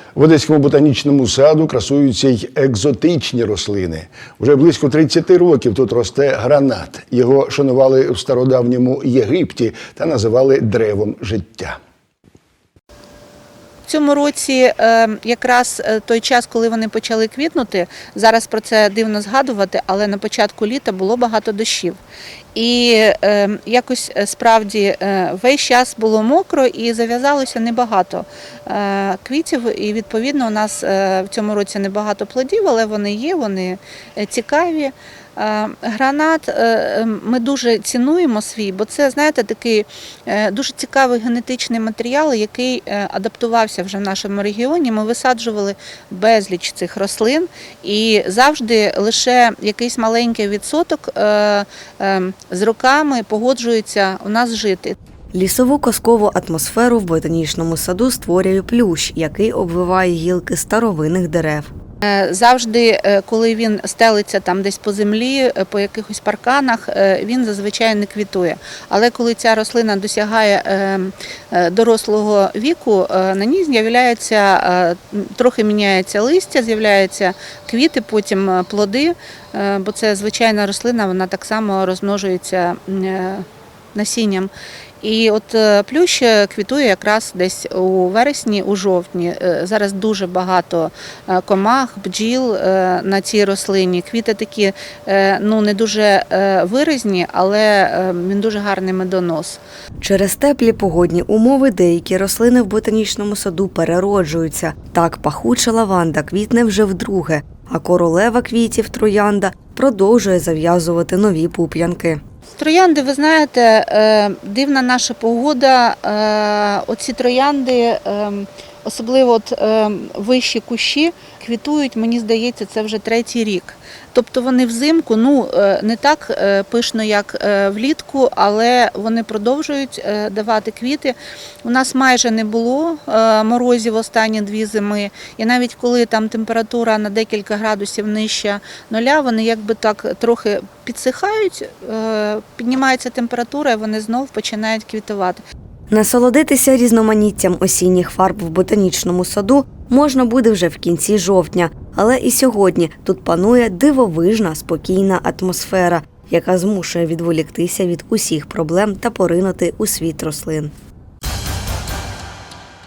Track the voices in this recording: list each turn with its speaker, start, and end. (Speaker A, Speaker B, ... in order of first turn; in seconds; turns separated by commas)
Speaker A: 0.1-11.8, Speaker B: 13.9-22.0, Speaker B: 22.5-55.0, Speaker C: 55.3-61.7, Speaker B: 62.0-99.6, Speaker C: 100.0-112.2, Speaker B: 112.5-145.4, Speaker C: 145.9-160.7